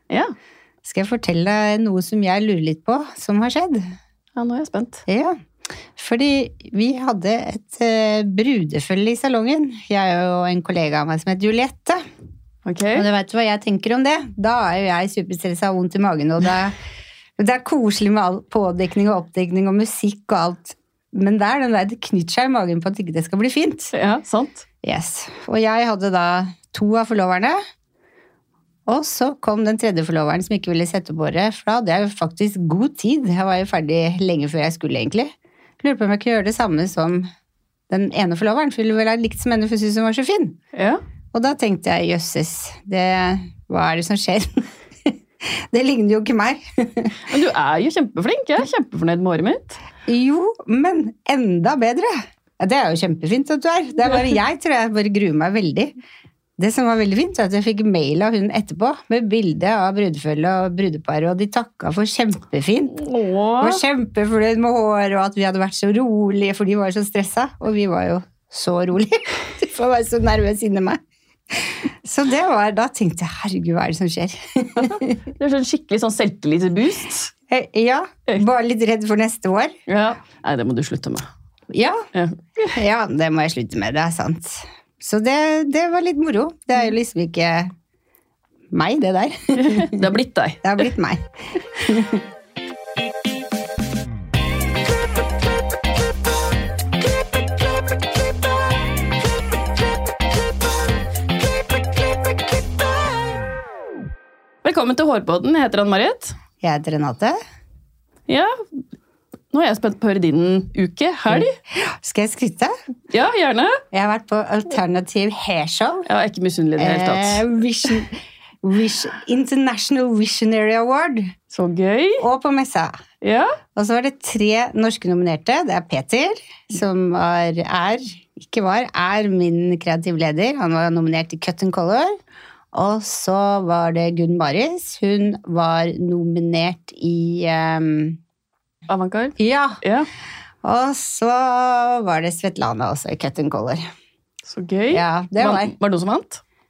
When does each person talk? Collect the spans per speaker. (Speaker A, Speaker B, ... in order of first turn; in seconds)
Speaker A: 0.1-0.3, 4.3-5.0, 12.6-13.1, 23.9-24.6, 40.7-41.0, 47.3-49.8, 63.0-63.8, 75.4-77.3, 79.9-81.3, 82.1-82.7, 89.5-90.6, 104.6-106.4, 108.3-108.5, 109.5-111.5, 113.1-113.8, 116.1-117.9, 121.5-122.2, 123.2-123.6, 138.9-140.1, 144.4-146.4
Speaker B: 0.8-3.8, 5.1-5.4, 5.9-12.0, 12.9-16.7, 17.4-23.9, 24.8-27.6, 28.9-37.3, 37.9-40.6, 41.3-47.2, 50.1-55.9, 56.6-63.0, 63.6-71.0, 71.5-75.2, 77.5-79.7, 81.7-82.0, 82.7-87.7, 88.7-90.0, 90.6-92.2, 106.6-107.4, 111.3-112.7, 113.9-116.0, 116.8-121.3, 122.2-122.9, 123.8-132.2, 132.7-138.2, 139.4-139.8, 140.6-143.8, 144.9-145.7